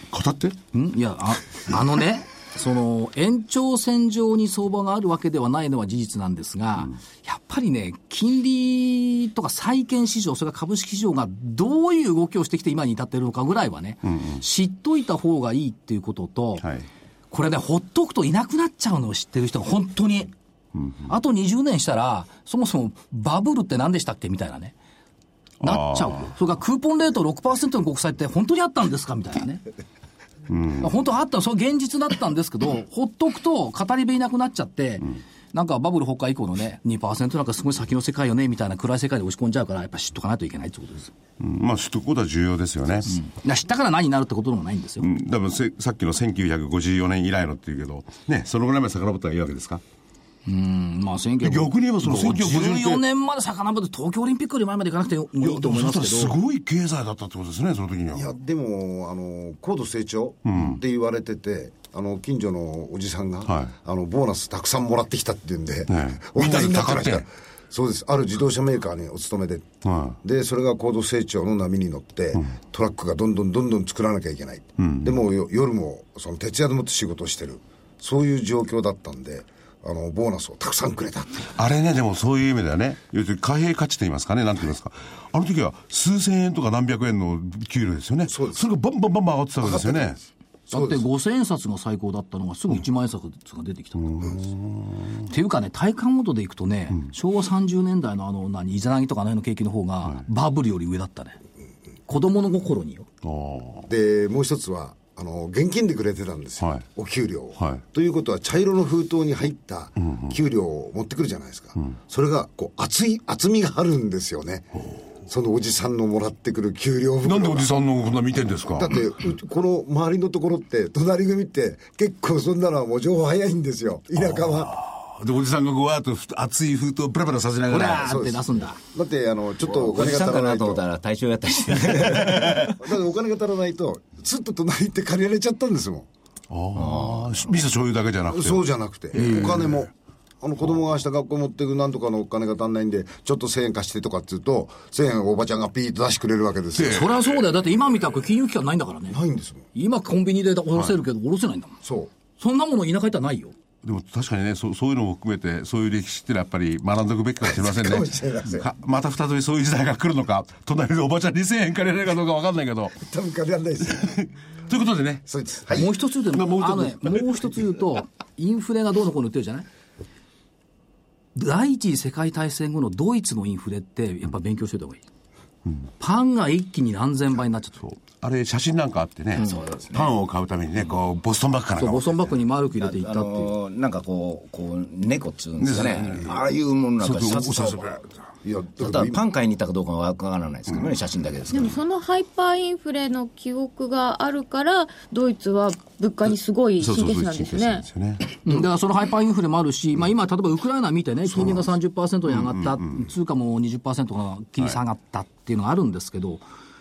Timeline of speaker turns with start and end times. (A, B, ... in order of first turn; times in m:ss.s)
0:00.1-0:00.6 A
0:00.7-0:16.7 B
0:14.1-0:14.4 A
0:16.6-0:16.9 A
0:17.3-0:20.3 B
0:21.1-0:24.8 B
0:25.6-0:26.3 A
0:25.6-0:29.6 B
0:30.5-0:30.9 A
0:30.8-0:41.1 B
0:41.4-0:43.2 A
0:43.1-0:45.1 B
0:45.0-0:49.8 A
0:50.5-0:56.4 B
0:51.4-0:53.0 A
0:55.4-0:58.3 A
0:58.1-1:21.5 C
1:00.5-1:00.8 A
1:05.9-1:07.2 A
1:09.8-1:10.2 A
1:14.8-1:15.2 A
1:21.6-1:30.2 A
1:28.3-1:28.6 C
1:29.6-1:30.2 C
1:30.7-1:34.2 B
1:30.7-1:31.0 C
1:34.0-1:35.2 A
1:35.3-1:41.4 B
1:42.1-1:43.1 B
1:43.2-1:43.9 A
1:43.9-1:54.7 C
1:50.0-1:50.3 A
1:55.3-1:57.7 C
1:57.2-1:59.0 A
1:58.7-2:04.8 C
2:04.4-2:08.1 A
2:07.7-2:08.8 B
2:08.0-2:10.8 C
2:09.6-2:12.8 D
2:12.3-2:16.1 C
2:12.4-2:12.7 A
2:16.5-2:18.6 A
2:16.8-2:17.2 D
2:18.3-2:27.1 C
2:19.2-2:19.8 A
2:26.8-2:27.2 A
2:26.9-2:29.2 B
2:29.1-2:29.7 C
2:29.8-2:31.8 B
2:31.8-2:32.1 C
2:32.4-2:33.5 B
2:33.8-2:43.0 A
2:37.4-2:38.7 C
2:43.0-2:44.2 C
2:44.0-2:45.2 A
2:45.3-2:45.9 C
2:45.8-2:49.7 B
2:46.3-2:47.5 A
2:51.4-2:55.0 B
2:56.0-2:57.9 B
2:57.9-3:02.2 A
2:59.4-3:00.1 D
3:01.8-3:03.5 B
3:02.8-3:08.0 D
3:05.6-3:06.3 A
3:07.0-3:08.0 A
3:08.4-3:09.2 C
3:08.8-3:11.8 D
3:11.5-3:17.9 E
3:16.8-3:18.4 A
3:18.4-3:26.4 B
3:22.3-3:23.1 A